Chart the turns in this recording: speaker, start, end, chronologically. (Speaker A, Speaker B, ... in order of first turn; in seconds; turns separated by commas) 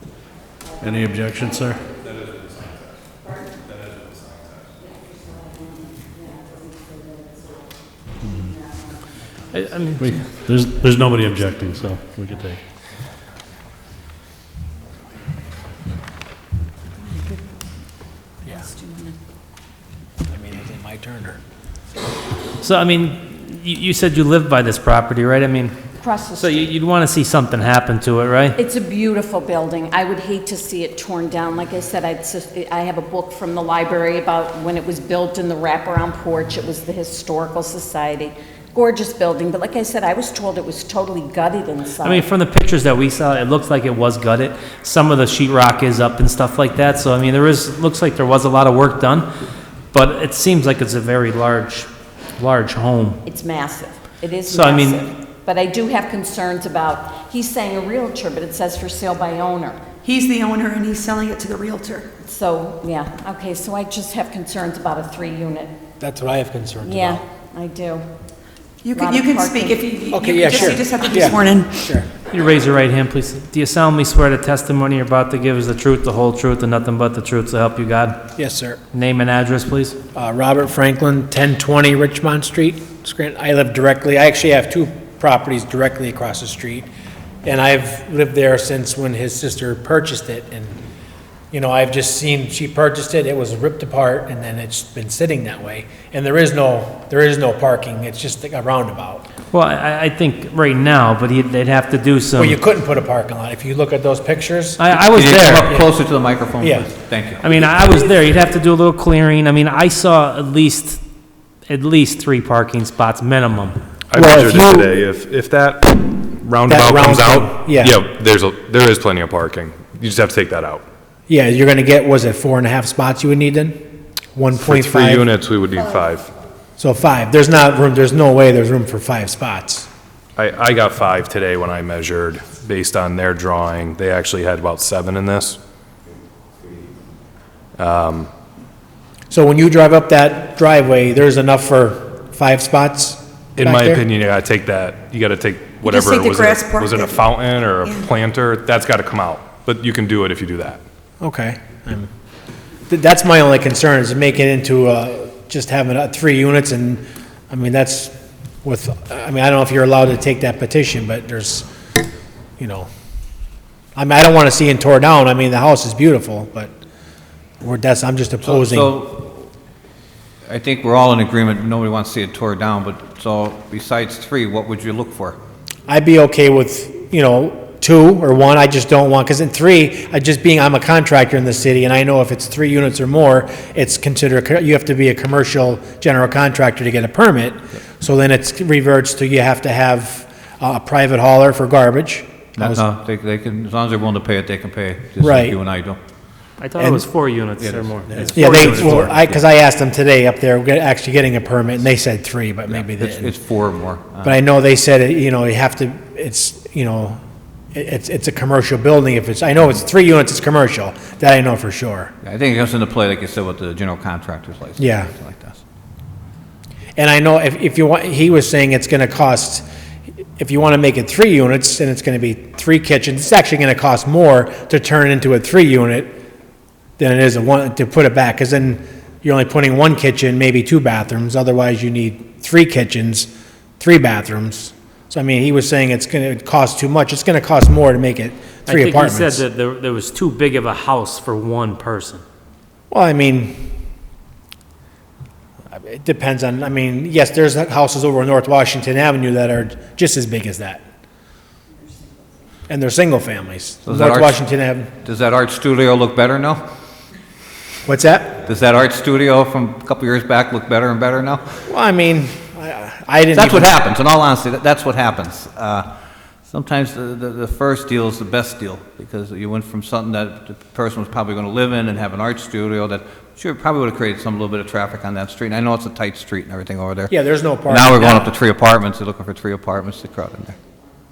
Speaker A: 0.8-1.9, Speaker B: 1.9-2.9, Speaker B: 3.6-4.7, Speaker C: 5.2-7.6, Speaker A: 8.2-8.5, Speaker D: 9.5-10.1, Speaker A: 10.0-12.6, Speaker C: 18.5-19.1, Speaker E: 20.3-21.4, Speaker D: 22.6-25.8, Speaker C: 26.0-26.6, Speaker D: 26.4-28.6, Speaker C: 28.6-42.2, Speaker D: 42.0-49.3, Speaker D: 49.9-53.2, Speaker C: 53.2-59.9, Speaker D: 54.5-55.0, Speaker F: 60.0-62.1, Speaker C: 62.2-65.8, Speaker E: 66.0-67.2, Speaker C: 66.8-68.0, Speaker F: 68.8-71.8, Speaker C: 68.9-70.9, Speaker E: 70.1-72.1, Speaker D: 72.3-78.2, Speaker E: 78.3-78.8, Speaker D: 78.9-80.0, Speaker E: 80.1-86.9, Speaker E: 87.4-90.8, Speaker E: 91.5-99.2, Speaker D: 99.5-102.6, Speaker E: 102.3-104.8, Speaker D: 104.8-105.7, Speaker G: 105.1-107.5, Speaker E: 106.6-106.9, Speaker D: 107.4-111.0, Speaker D: 111.7-113.8, Speaker B: 114.1-120.8, Speaker E: 114.1-114.9, Speaker E: 116.7-118.0, Speaker E: 121.3-123.8, Speaker E: 124.3-125.2, Speaker B: 124.6-126.3, Speaker E: 126.8-129.9, Speaker B: 130.4-135.6, Speaker B: 137.8-138.3, Speaker E: 139.3-144.0, Speaker B: 143.6-150.8, Speaker F: 145.9-147.1, Speaker E: 151.2-152.1, Speaker E: 152.9-161.7, Speaker E: 162.6-162.9, Speaker E: 163.9-166.7, Speaker E: 167.6-169.0, Speaker G: 168.4-169.5, Speaker G: 170.5-175.4, Speaker E: 175.9-192.9, Speaker G: 192.6-196.0, Speaker E: 195.2-195.6, Speaker D: 196.6-199.1, Speaker E: 196.8-197.1, Speaker G: 197.6-199.4, Speaker E: 198.3-203.3, Speaker G: 202.7-204.4, Speaker E: 204.2-207.2, Speaker E: 207.7-212.1, Speaker G: 212.2-215.6, Speaker E: 214.8-215.1, Speaker E: 216.9-219.7, Speaker E: 220.4-226.2, Speaker E: 227.0-239.4, Speaker D: 238.7-242.2, Speaker E: 242.9-243.7, Speaker E: 245.7-250.8, Speaker E: 252.7-254.9, Speaker G: 253.8-254.4, Speaker G: 255.0-256.6, Speaker E: 257.9-258.4, Speaker G: 258.4-261.4, Speaker E: 261.7-263.7, Speaker G: 263.3-265.9, Speaker G: 266.5-280.6, Speaker E: 277.1-278.3